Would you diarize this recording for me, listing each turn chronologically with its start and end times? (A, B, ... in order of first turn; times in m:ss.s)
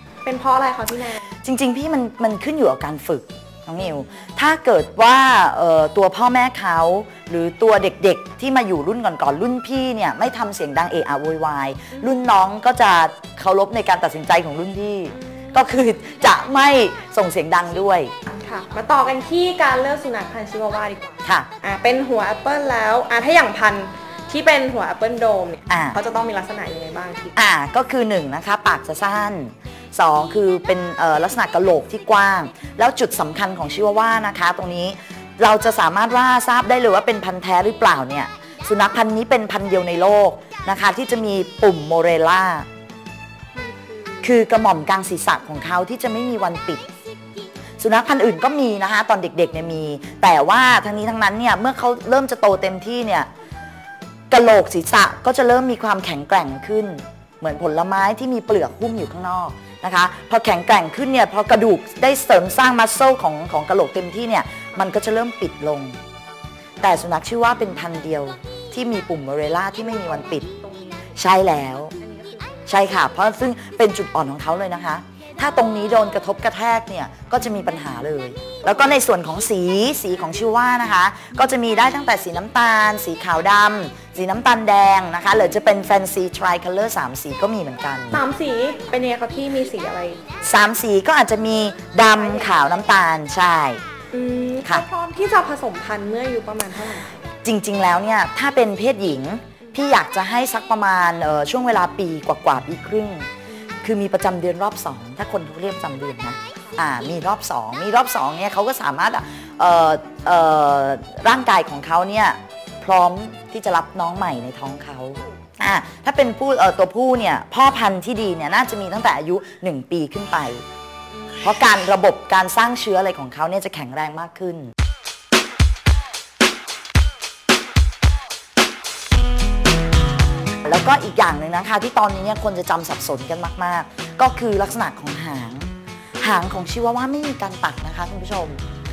0:00.2-0:01.3 A
0:01.4-0:18.1 B
0:03.8-0:04.3 A
0:15.1-0:15.7 A
0:18.3-0:27.3 A
0:25.7-0:26.0 B
0:27.4-0:42.7 B
0:43.5-0:44.4 A
0:44.2-0:46.8 B
0:47.8-0:53.3 B
0:54.3-1:06.0 B
1:06.8-1:10.4 B
1:09.8-1:11.2 A
1:11.2-1:11.9 B
1:12.0-1:12.8 A
1:12.7-1:28.2 B
1:28.1-1:30.2 A
1:30.4-1:33.8 B
1:32.1-1:32.8 A
1:34.1-1:37.1 A
1:37.4-1:43.3 B
1:43.5-1:43.9 A
1:43.8-2:00.6 B
2:01.1-2:01.4 A
2:01.4-2:04.7 B
2:10.6-2:18.6 B
2:16.2-2:16.5 A